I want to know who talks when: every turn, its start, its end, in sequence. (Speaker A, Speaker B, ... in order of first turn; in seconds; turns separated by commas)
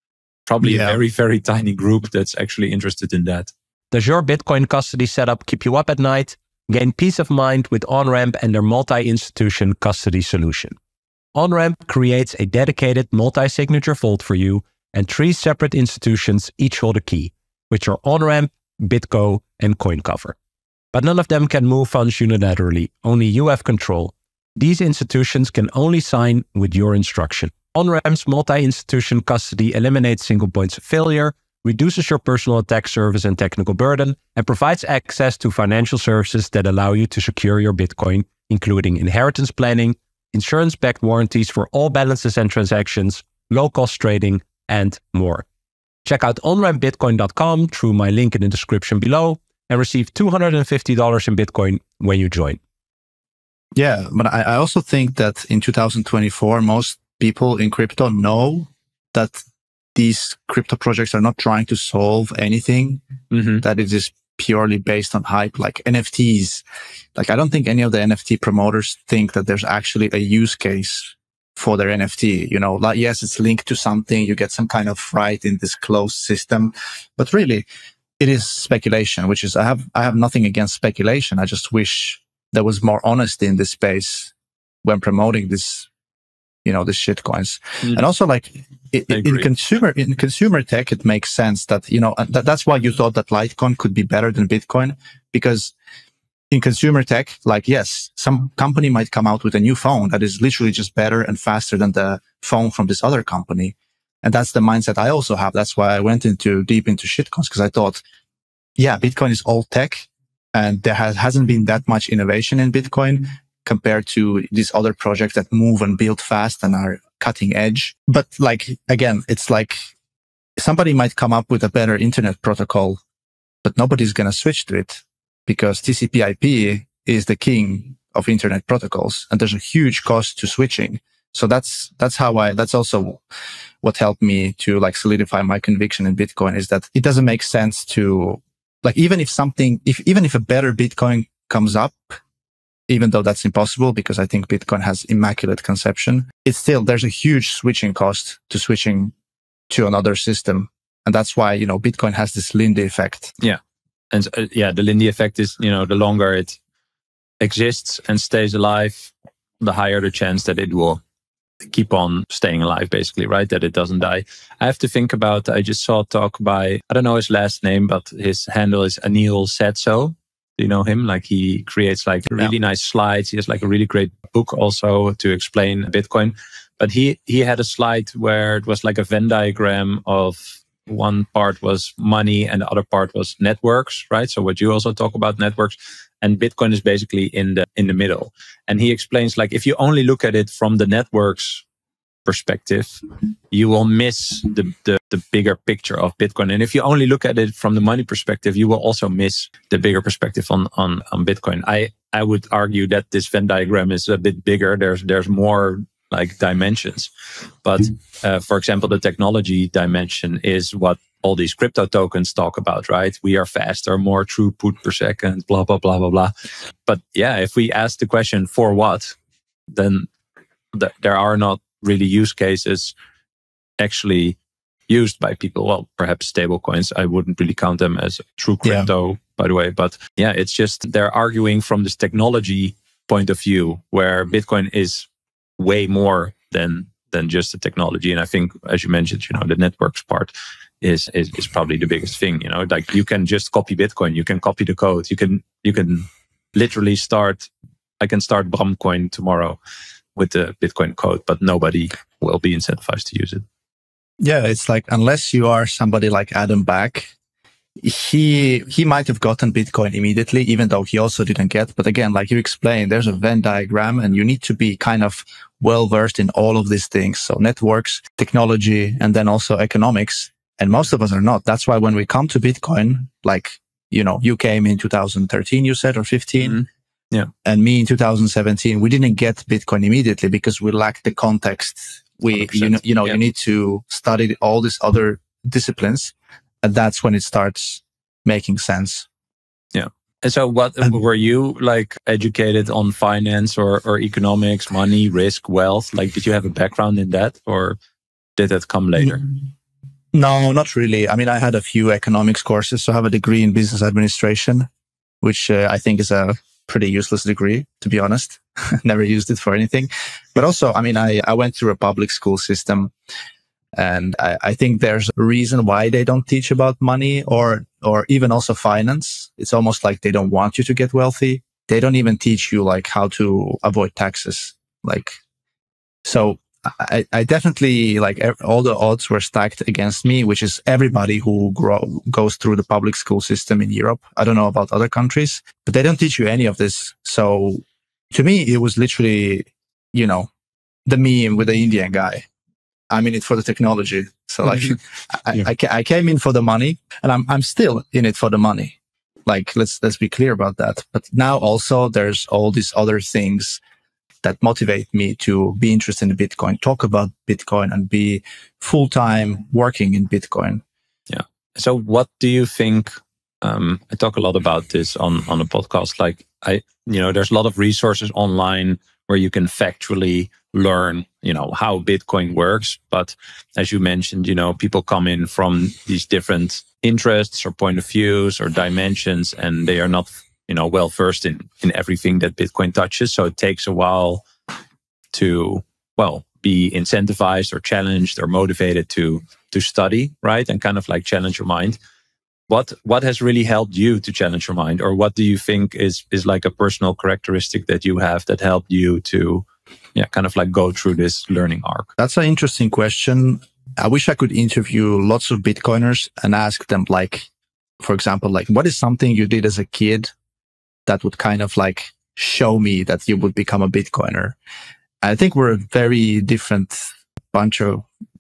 Speaker A: 0.5-3.5, Speaker B: 0.6-1.0, Speaker C: 3.9-10.8, Speaker C: 11.3-20.4, Speaker C: 20.9-45.5, Speaker C: 46.0-52.6, Speaker B: 53.8-59.4, Speaker B: 60.0-63.0, Speaker A: 63.3-63.6, Speaker B: 63.6-66.6, Speaker B: 67.2-77.7, Speaker B: 78.2-84.3, Speaker B: 84.8-85.9, Speaker B: 86.7-95.7, Speaker A: 89.1-89.5, Speaker B: 96.5-108.0, Speaker B: 108.8-119.9, Speaker B: 120.6-123.0, Speaker B: 123.6-133.2, Speaker B: 133.8-142.2, Speaker B: 142.9-149.1, Speaker B: 149.7-153.3, Speaker A: 154.1-156.6, Speaker A: 157.4-161.0, Speaker A: 161.7-191.6, Speaker A: 192.3-207.1, Speaker A: 207.6-216.3, Speaker A: 216.9-219.2, Speaker A: 219.7-220.1, Speaker A: 220.7-222.9, Speaker A: 223.8-224.4, Speaker A: 224.9-235.1, Speaker B: 228.6-228.9, Speaker A: 235.6-247.5, Speaker A: 248.0-249.6, Speaker A: 250.2-253.4, Speaker B: 254.2-257.1, Speaker B: 257.8-276.6, Speaker A: 276.4-277.3, Speaker B: 277.4-289.1, Speaker A: 282.3-283.2, Speaker A: 289.7-297.8, Speaker A: 298.4-299.2, Speaker B: 300.1-304.7, Speaker B: 305.2-312.9, Speaker B: 313.7-325.2, Speaker B: 326.1-340.3, Speaker B: 340.9-342.3, Speaker B: 342.9-353.6, Speaker B: 354.2-360.6, Speaker A: 361.1-362.9, Speaker A: 363.4-384.2, Speaker A: 385.1-391.8, Speaker A: 392.5-401.9, Speaker B: 402.0-407.3, Speaker B: 407.8-410.1, Speaker B: 410.9-414.4, Speaker B: 415.0-417.9